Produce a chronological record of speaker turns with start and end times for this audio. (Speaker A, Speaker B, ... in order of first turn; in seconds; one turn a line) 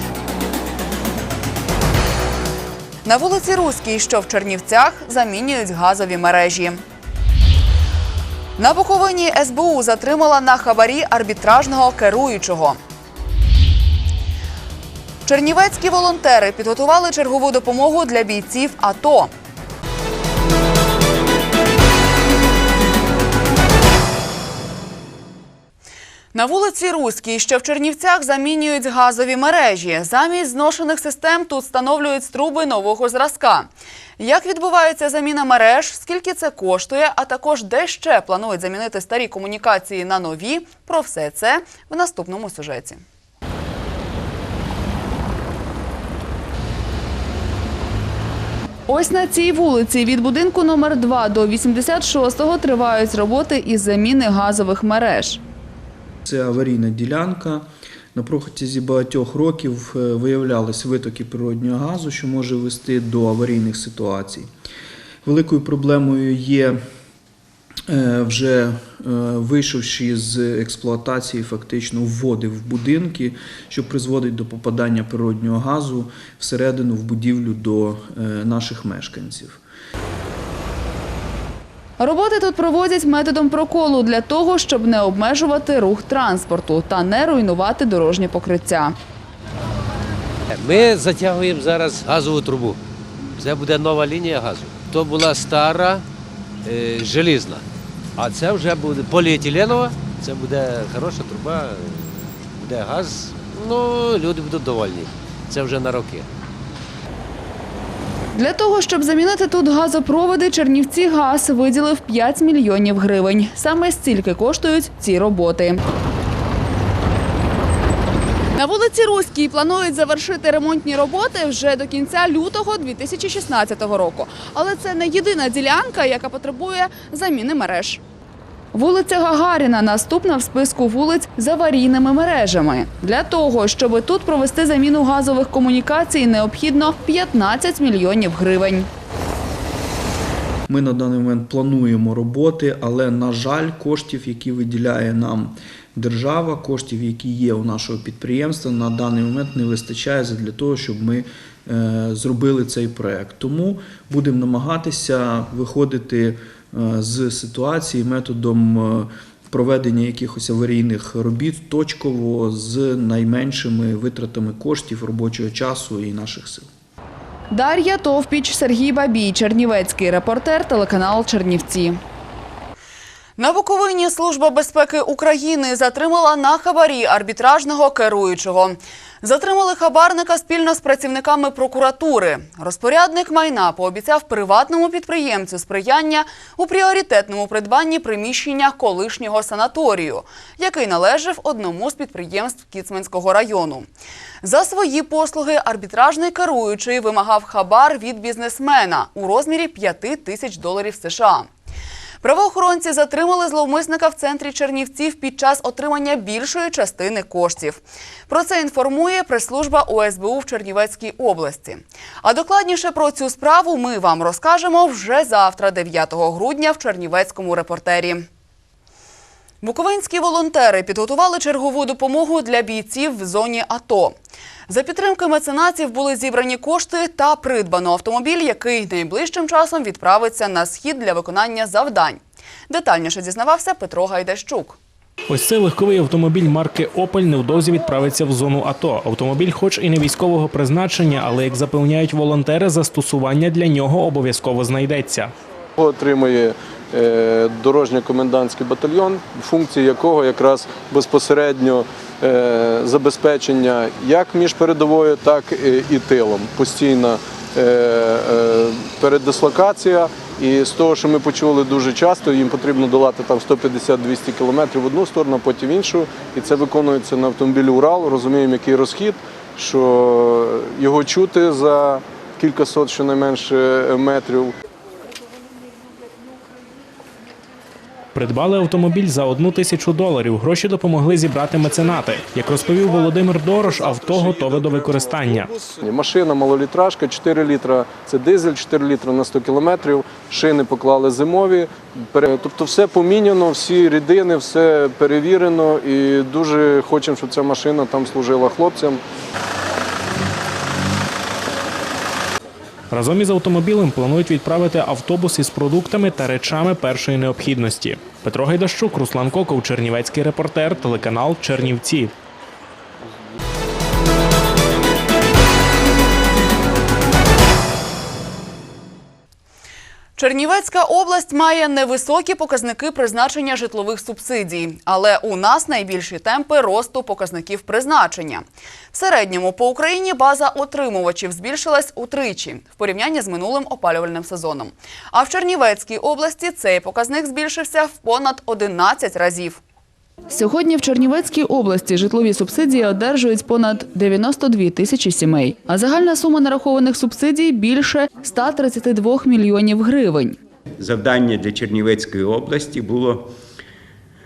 Speaker A: 3.0-6.8
Speaker A: 8.6-12.8
Speaker A: 15.2-19.3
Speaker A: 26.3-43.0
Speaker A: 48.9-55.4
Speaker B: 56.2-64.5
Speaker B: 65.2-66.8
Speaker B: 67.9-79.6
Speaker A: 82.0-88.9
Speaker C: 90.6-92.7
Speaker C: 93.4-96.0
Speaker C: 96.7-97.5
Speaker C: 98.2-101.7
Speaker C: 102.6-106.2
Speaker A: 108.3-115.8
Speaker A: 118.5-128.0
Speaker A: 128.7-138.9
Speaker B: 140.7-166.7
Speaker A: 167.5-172.0
Speaker A: 173.4-193.9
Speaker A: 194.4-201.5
Speaker A: 202.2-218.2
Speaker A: 219.6-224.1
Speaker A: 224.7-234.8
Speaker D: 235.3-245.3
Speaker E: 245.8-274.5
Speaker D: 278.1-285.5
Speaker E: 284.2-299.0
Speaker D: 302.9-312.1
Speaker A: 320.1-339.6
Speaker A: 340.3-350.4
Speaker F: 350.8-353.2